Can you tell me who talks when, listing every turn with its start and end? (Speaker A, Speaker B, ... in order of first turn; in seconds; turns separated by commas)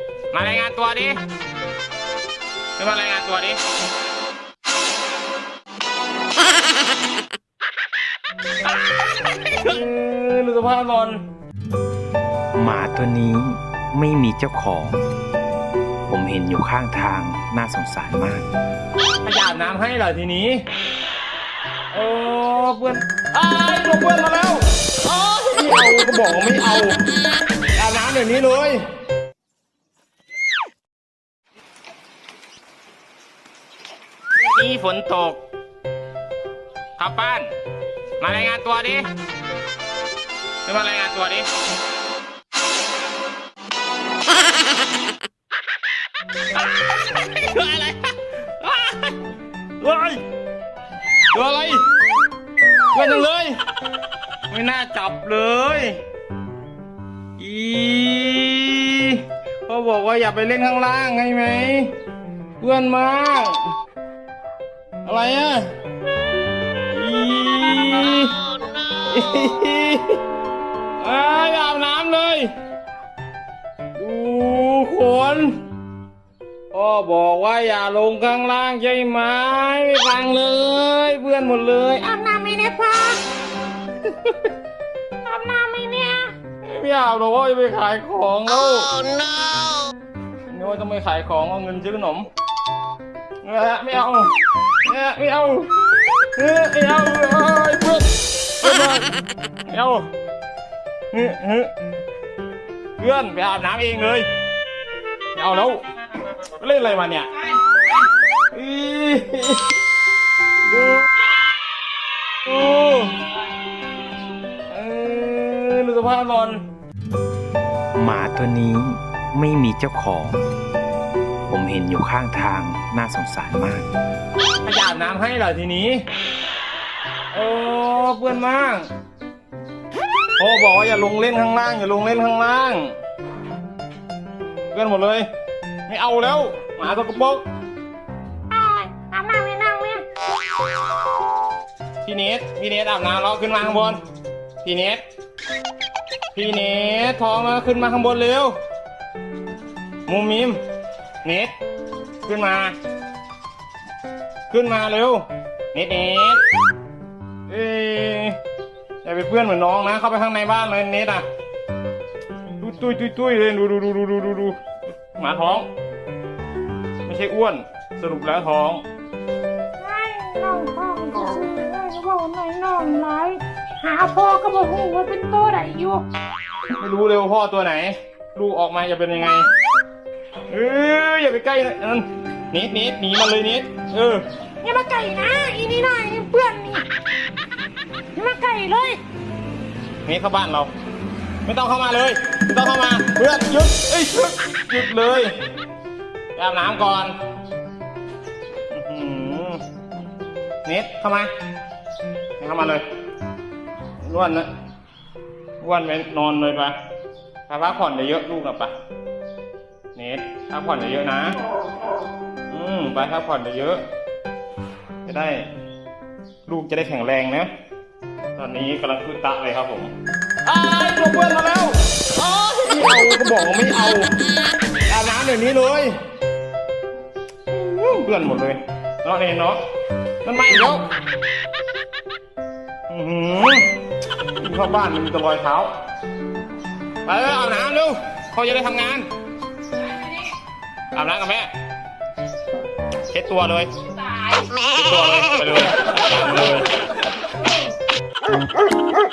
Speaker A: 0.3-1.2, Speaker A: 2.8-3.6, Speaker A: 8.6-11.2, Speaker B: 12.5-15.0, Speaker B: 16.1-18.5, Speaker A: 19.2-20.6, Speaker A: 21.9-27.0, Speaker A: 27.6-28.8, Speaker A: 34.4-35.4, Speaker A: 37.0-37.5, Speaker A: 38.2-39.1, Speaker A: 40.6-41.5, Speaker A: 46.5-49.3, Speaker A: 49.8-50.2, Speaker A: 51.3-51.9, Speaker A: 52.9-53.6, Speaker A: 54.5-56.0, Speaker A: 57.4-61.9, Speaker A: 62.6-63.7, Speaker A: 65.0-65.7, Speaker A: 66.9-70.2, Speaker A: 71.0-72.5, Speaker A: 73.9-75.6, Speaker A: 76.7-82.1, Speaker C: 82.0-83.2, Speaker A: 84.0-84.5, Speaker C: 85.2-86.3, Speaker A: 86.6-89.0, Speaker A: 90.5-92.3, Speaker A: 93.4-99.1, Speaker A: 99.7-100.1, Speaker A: 101.1-101.7, Speaker A: 103.0-104.3, Speaker A: 105.3-105.8, Speaker A: 106.4-107.6, Speaker A: 108.5-109.7, Speaker A: 110.7-111.1, Speaker A: 112.3-113.2, Speaker A: 114.7-116.6, Speaker B: 117.9-120.4, Speaker B: 121.5-123.9, Speaker A: 124.6-126.0, Speaker A: 127.3-128.9, Speaker A: 130.4-132.9, Speaker A: 134.7-135.3, Speaker A: 135.9-137.4, Speaker C: 138.5-140.0, Speaker A: 142.0-144.0, Speaker A: 144.6-145.0, Speaker A: 146.3-148.6, Speaker A: 150.1-150.6, Speaker A: 151.2-151.5, Speaker A: 152.2-152.8, Speaker A: 154.5-156.4, Speaker A: 157.5-158.4, Speaker A: 159.0-161.2, Speaker A: 162.6-164.6, Speaker A: 165.1-165.7, Speaker A: 167.0-168.8, Speaker C: 169.8-176.0, Speaker A: 176.7-179.5, Speaker A: 180.5-184.2, Speaker C: 184.6-186.8, Speaker C: 188.1-189.0, Speaker A: 190.0-190.7, Speaker A: 191.4-195.3, Speaker A: 196.3-197.1, Speaker A: 198.7-199.6, Speaker A: 200.6-201.3, Speaker A: 202.4-202.8, Speaker A: 204.0-204.5, Speaker A: 205.6-206.8, Speaker A: 207.5-208.7, Speaker A: 209.9-211.4, Speaker A: 212.5-213.8, Speaker A: 215.0-215.5, Speaker A: 216.4-217.5, Speaker A: 218.3-219.9, Speaker A: 220.4-224.2, Speaker A: 224.8-225.9, Speaker A: 227.5-229.6, Speaker A: 230.2-230.9, Speaker A: 232.9-233.7, Speaker A: 234.4-235.7, Speaker A: 237.0-239.1, Speaker A: 240.9-241.5, Speaker A: 243.1-243.7, Speaker A: 244.3-246.7